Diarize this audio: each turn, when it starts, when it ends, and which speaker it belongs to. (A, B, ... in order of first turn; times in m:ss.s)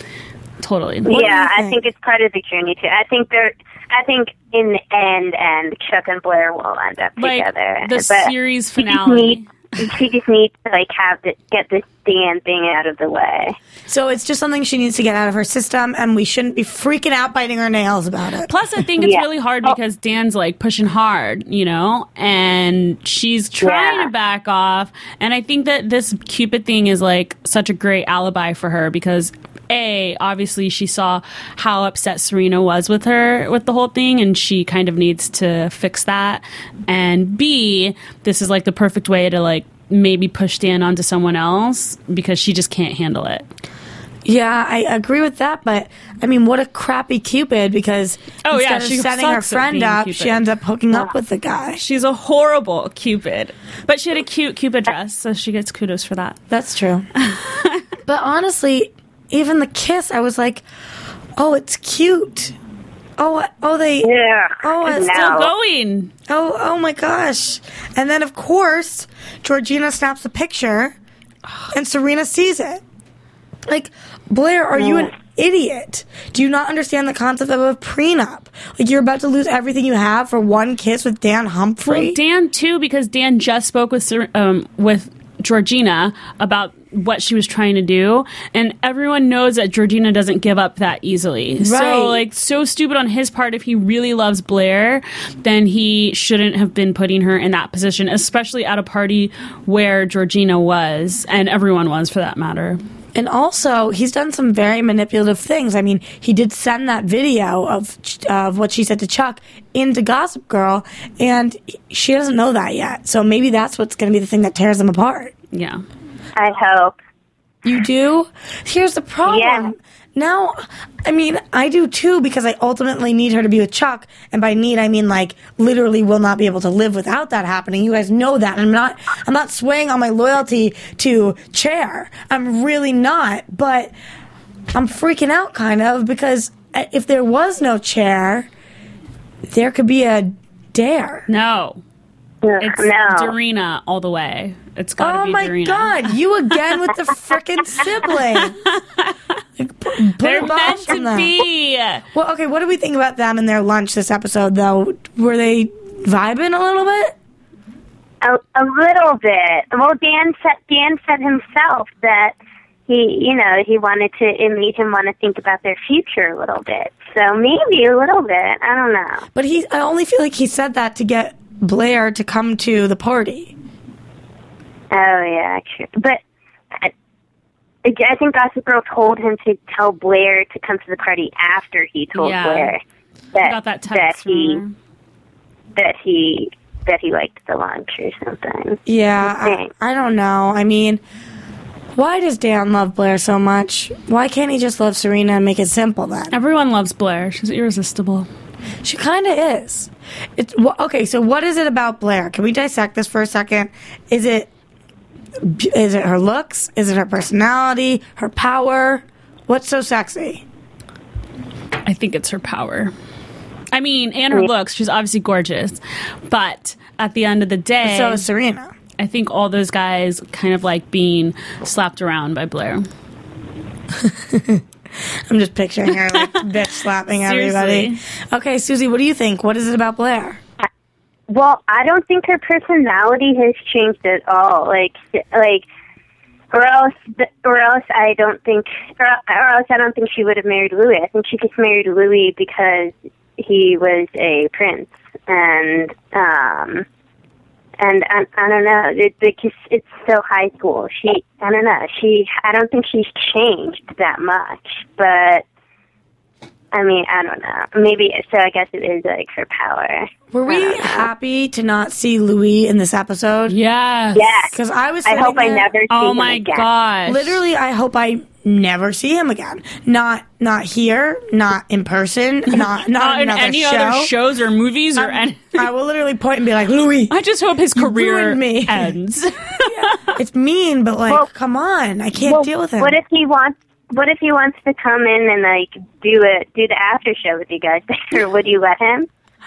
0:00.6-0:01.2 A
0:01.1-0:13.6 B
0:01.1-0:01.8 C
0:07.2-0:09.5 A
0:13.9-0:18.5 C
0:18.5-0:43.5 A
0:19.0-0:19.7 B
0:23.6-0:24.1 B
0:44.2-0:51.8 C
0:48.4-0:50.4 A
0:51.8-0:56.4 A
0:56.5-0:57.1 C
0:57.2-0:57.8 A
0:58.1-1:00.6 C
1:01.4-1:02.6 C
1:03.2-1:05.3 C
1:04.0-1:05.5 B
1:04.9-1:06.1 A
1:06.3-1:11.0 C
1:11.7-1:12.8 C
1:13.6-1:22.2 C
1:21.8-1:42.8 A
1:31.6-1:32.2 C
1:43.2-1:55.3 C
1:55.5-1:55.8 A
1:56.4-1:57.0 B
1:57.6-2:13.9 C
1:59.3-1:59.7 B
2:14.7-2:18.5 C
2:19.5-2:21.3 C
2:21.3-2:21.8 A
2:22.4-2:23.3 B
2:22.6-2:26.1 A
2:25.0-2:28.6 C
2:28.6-2:29.1 A
2:29.6-2:31.4 C
2:30.2-2:32.0 A
2:32.1-2:37.2 C
2:38.2-2:42.4 B
2:42.9-2:49.3 B
2:49.4-2:53.5 C
2:54.9-2:56.2 B
2:57.8-3:02.8 B
3:02.2-3:02.8 A
3:03.3-3:04.6 B
3:03.4-3:04.7 A
3:05.8-3:09.7 B
3:08.9-3:11.0 C
3:12.0-3:16.3 C
3:16.3-3:18.3 A
3:18.8-3:24.5 C
3:25.4-3:30.4 C
3:31.8-3:32.9 A
3:33.7-3:38.2 A
3:37.8-3:38.7 C
3:39.0-3:42.9 A
3:44.0-3:44.6 C
3:45.3-3:50.4 C
3:47.2-3:48.0 A
3:51.3-3:55.7 B
3:56.5-4:06.8 B
4:07.8-4:15.4 B
4:16.7-4:21.1 B
4:20.3-4:23.6 C
4:23.5-4:24.4 A
4:24.2-4:24.6 B
4:24.5-4:25.7 C
4:25.1-4:26.7 B
4:25.9-4:27.4 A
4:27.1-4:34.1 C
4:32.5-4:35.7 A
4:35.0-4:37.2 C
4:37.1-4:40.1 A
4:37.8-4:39.0 C
4:39.6-4:43.0 C
4:42.2-4:49.1 B